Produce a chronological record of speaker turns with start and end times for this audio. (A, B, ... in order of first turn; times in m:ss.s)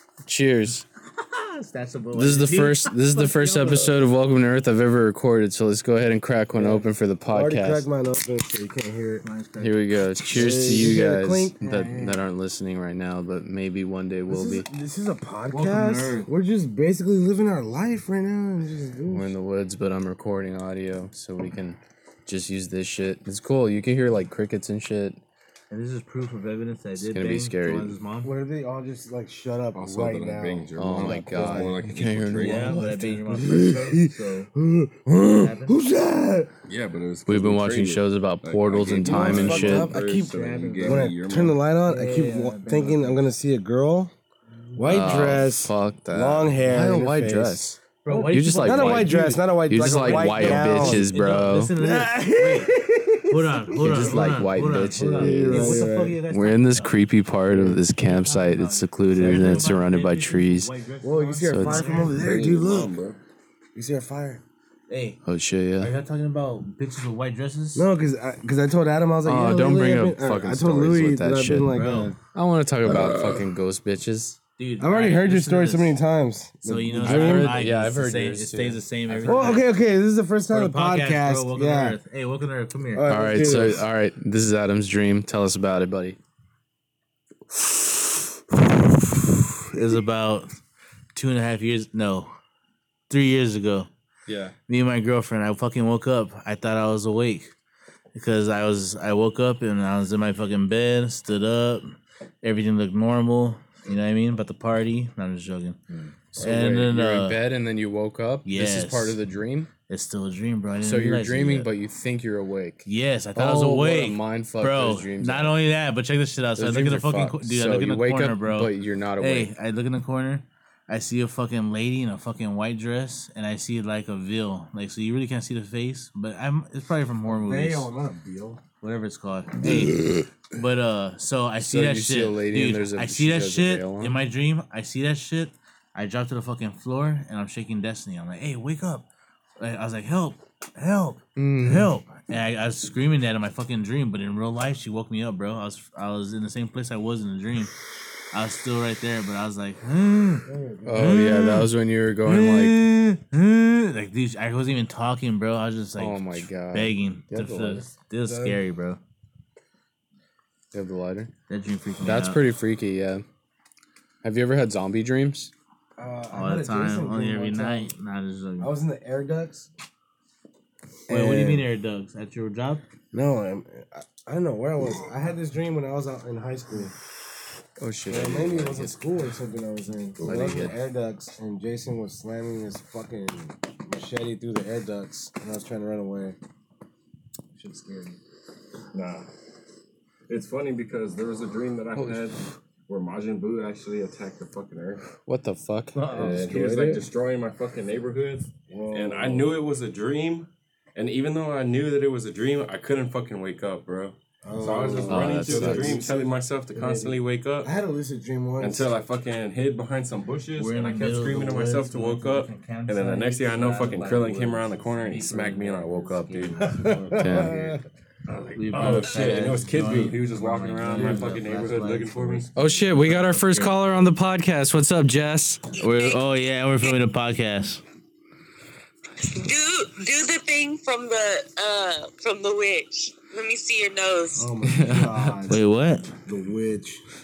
0:00.2-0:00.9 A
0:01.2-0:04.0 B
0:02.1-0:07.9 A
0:06.5-0:09.2 C
0:09.2-0:09.8 B
0:09.6-0:14.7 A
0:10.3-0:12.2 C
0:14.3-0:19.3 C
0:15.5-0:16.3 B
0:19.1-0:25.2 A
0:25.7-0:28.3 B
0:27.0-0:28.0 A
0:28.2-0:31.8 C
0:29.7-0:32.8 D
0:30.8-0:32.9 A
0:32.4-0:34.5 B
0:32.4-0:36.5 C
0:35.3-0:35.8 B
0:36.7-0:41.6 D
0:37.3-0:39.9 A
0:39.0-0:40.3 C
0:39.5-0:41.1 B
0:40.8-0:44.1 C
0:41.9-0:43.3 B
0:44.7-0:45.1 B
0:44.8-0:51.1 C
0:44.9-0:51.7 A
0:48.0-0:57.0 B
0:51.8-0:56.2 C
0:53.8-1:00.7 A
0:57.5-0:57.8 C
0:58.0-1:02.2 B
0:59.2-0:59.6 C
1:01.0-1:03.0 C
1:01.4-1:01.9 A
1:02.0-1:03.2 D
1:03.8-1:04.4 C
1:04.9-1:05.2 B
1:05.2-1:05.9 A
1:05.8-1:07.9 B
1:07.8-1:12.2 C
1:09.2-1:11.8 A
1:11.7-1:12.2 B
1:12.3-1:14.4 A
1:12.8-1:13.5 D
1:14.6-1:16.0 B
1:14.8-1:17.6 C
1:16.6-1:19.7 B
1:17.0-1:19.6 A
1:19.2-1:22.0 C
1:20.5-1:23.1 B
1:22.9-1:23.8 C
1:23.1-1:26.2 A
1:28.9-1:30.6 B
1:31.2-1:32.3 B
1:33.1-1:33.9 B
1:34.3-1:34.5 A
1:34.7-1:37.5 B
1:38.1-1:45.8 B
1:45.9-1:46.2 D
1:46.3-1:49.7 A
1:46.4-1:47.4 B
1:48.4-1:49.2 B
1:49.9-1:51.7 B
1:50.8-1:55.6 A
1:52.8-2:07.9 B
1:56.6-1:59.5 A
2:07.3-2:08.6 C
2:08.8-2:19.1 B
2:11.6-2:14.2 A
2:19.6-2:27.7 B
2:21.4-2:21.9 A
2:28.3-2:31.7 B
2:30.4-2:31.2 C
2:30.8-2:32.8 A
2:32.2-2:39.0 B
2:36.0-2:37.9 A
2:38.2-2:38.6 C
2:40.7-2:41.3 A
2:41.5-2:42.4 B
2:42.0-2:43.2 A
2:44.2-2:45.5 A
2:46.0-2:47.9 C
2:46.3-2:48.7 B
2:48.6-2:49.7 C
2:51.1-2:51.7 C
2:51.1-2:52.8 B
2:53.1-2:56.9 C
2:57.8-2:59.0 A
2:58.1-3:06.4 C
3:00.2-3:00.7 D
3:00.2-3:00.8 A
3:07.6-3:08.2 C
3:08.9-3:09.3 D
3:10.3-3:15.1 D
3:12.0-3:12.3 A
3:15.2-3:16.6 A
3:16.0-3:17.0 C
3:16.1-3:27.7 D
3:18.7-3:19.6 C
3:24.4-3:28.9 C
3:25.0-3:26.0 A
3:28.6-3:42.5 D
3:30.6-3:37.0 B
3:36.6-3:37.8 C
3:37.2-3:37.6 A
3:38.5-3:43.8 B
3:42.6-3:45.6 A
3:45.8-3:47.8 B
3:49.2-3:54.5 E
3:54.4-3:55.6 C
3:54.6-3:55.4 A
3:55.5-3:56.2 B
3:56.2-3:57.0 C